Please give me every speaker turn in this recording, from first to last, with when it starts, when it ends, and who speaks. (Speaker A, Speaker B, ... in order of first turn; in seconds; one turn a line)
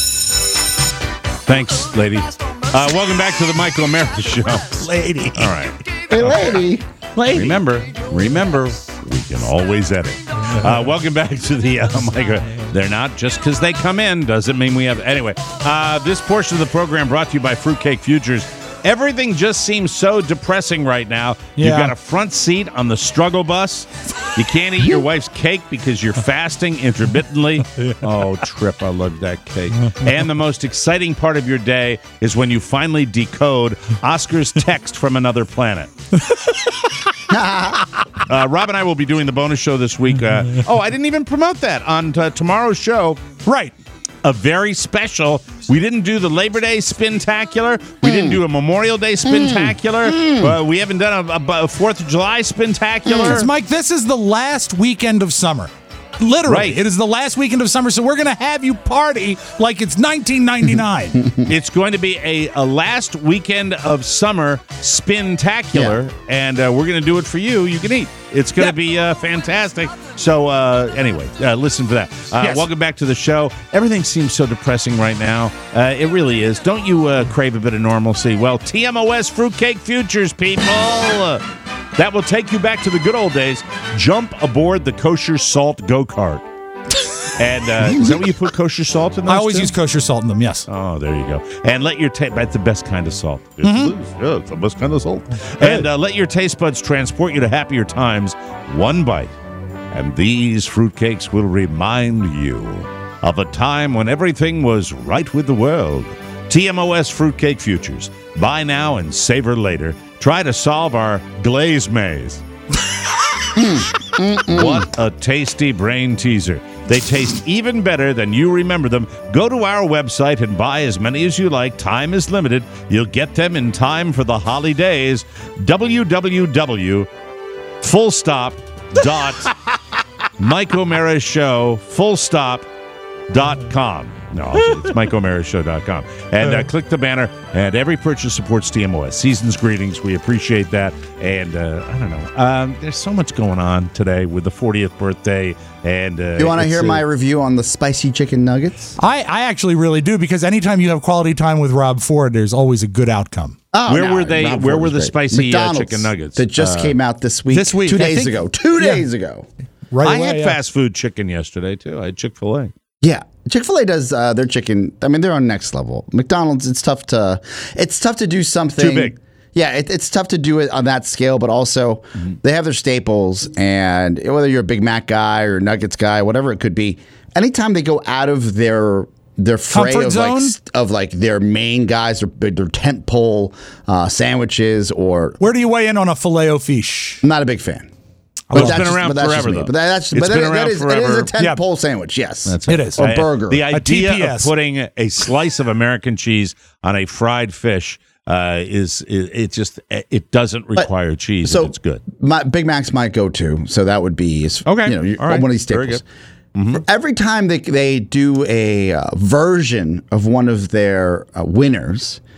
Speaker A: 1.5-6.5
Speaker B: 4.8-5.5
Speaker C: 6.1-6.8
Speaker A: 7.2-35.9
Speaker B: 21.6-21.9
Speaker C: 37.3-37.9
Speaker A: 38.3-43.2
Speaker B: 43.5-43.7
Speaker A: 44.2-53.5
Speaker C: 48.0-48.4
Speaker C: 49.2-50.6
Speaker C: 53.0-53.4
Speaker B: 53.2-61.2
Speaker A: 56.5-56.8
Speaker C: 61.2-61.5
Speaker A: 61.5-81.4
Speaker B: 72.4-72.7
Speaker A: 82.0-86.4
Speaker A: 87.4-89.7
Speaker B: 89.3-90.7
Speaker A: 90.7-99.3
Speaker B: 93.6-93.9
Speaker B: 95.6-95.9
Speaker A: 99.9-112.4
Speaker C: 113.6-114.9
Speaker A: 114.5-127.1
Speaker A: 127.8-129.5
Speaker A: 130.4-132.7
Speaker A: 133.3-147.0
Speaker C: 146.4-148.9
Speaker B: 149.0-153.6
Speaker C: 153.7-159.5
Speaker A: 153.9-157.0
Speaker B: 157.5-159.0
Speaker B: 159.9-160.6
Speaker A: 160.0-162.7
Speaker C: 163.0-185.4
Speaker A: 168.8-169.2
Speaker B: 179.7-180.6
Speaker B: 185.4-187.2
Speaker C: 187.2-187.9
Speaker B: 188.5-188.8
Speaker C: 188.5-193.7
Speaker A: 188.5-191.3
Speaker A: 192.5-202.0
Speaker B: 192.7-193.1
Speaker B: 193.7-194.5
Speaker C: 201.4-206.0
Speaker A: 204.7-206.0
Speaker A: 206.6-206.8
Speaker C: 206.7-212.2